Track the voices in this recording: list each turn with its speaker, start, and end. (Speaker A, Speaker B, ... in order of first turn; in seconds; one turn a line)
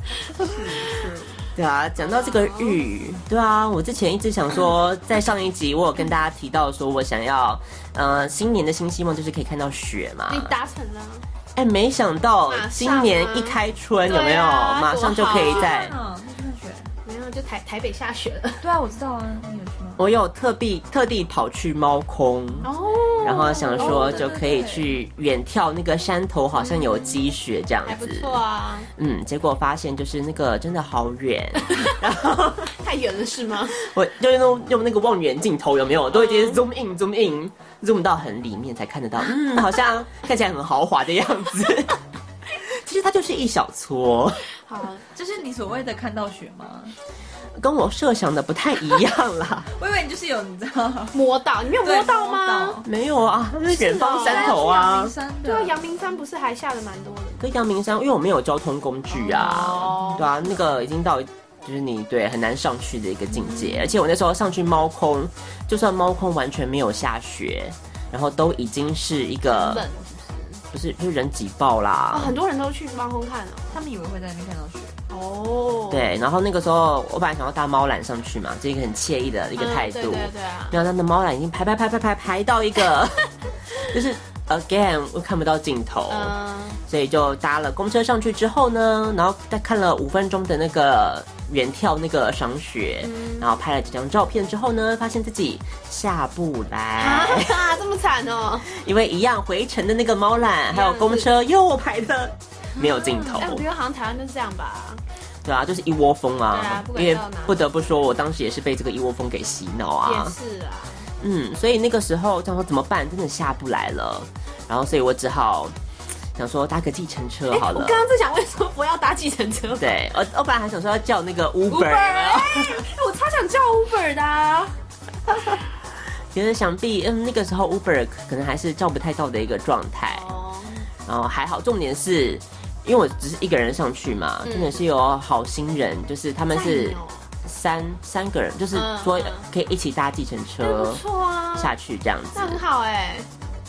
Speaker A: 0.4-1.4
Speaker B: 1.6-10.5
Speaker C: 2.0-2.8
Speaker C: 10.3-11.3
Speaker B: 11.6-15.9
Speaker C: 12.5-15.7
Speaker A: 15.3-16.9
Speaker C: 17.1-18.6
Speaker A: 18.6-20.0
Speaker B: 20.0-22.7
Speaker C: 22.6-24.2
Speaker B: 23.2-28.4
Speaker A: 23.8-25.0
Speaker C: 26.6-27.0
Speaker C: 27.9-28.9
Speaker B: 29.0-32.7
Speaker C: 32.8-33.8
Speaker B: 33.8-42.0
Speaker C: 36.1-36.6
Speaker B: 42.6-44.5
Speaker C: 44.7-45.0
Speaker A: 45.1-47.0
Speaker B: 47.6-49.7
Speaker A: 49.8-51.2
Speaker C: 51.1-52.8
Speaker A: 51.8-52.9
Speaker B: 52.9-55.1
Speaker C: 53.7-54.7
Speaker A: 54.1-55.9
Speaker C: 55.4-57.4
Speaker B: 57.4-69.8
Speaker C: 59.1-60.3
Speaker A: 60.0-60.2
Speaker C: 63.4-63.9
Speaker C: 69.5-70.6
Speaker B: 70.7-72.3
Speaker C: 72.1-73.8
Speaker A: 73.7-75.0
Speaker C: 75.1-76.1
Speaker B: 75.9-83.3
Speaker C: 79.6-80.8
Speaker B: 83.9-86.3
Speaker C: 86.1-86.8
Speaker B: 86.9-97.7
Speaker C: 93.0-93.5
Speaker C: 97.0-98.7
Speaker B: 98.7-103.6
Speaker C: 100.7-101.3
Speaker C: 102.8-105.0
Speaker A: 103.1-103.5
Speaker B: 105.5-110.3
Speaker C: 106.5-107.8
Speaker C: 110.0-111.1
Speaker B: 111.2-115.7
Speaker B: 116.4-118.0
Speaker C: 117.5-120.0
Speaker B: 119.8-122.8
Speaker C: 121.7-124.8
Speaker B: 126.3-130.2
Speaker C: 130.1-130.9
Speaker B: 131.1-141.0
Speaker C: 134.4-134.8
Speaker C: 136.5-137.3
Speaker C: 138.7-139.5
Speaker C: 140.6-141.7
Speaker B: 141.6-142.6
Speaker C: 142.3-143.3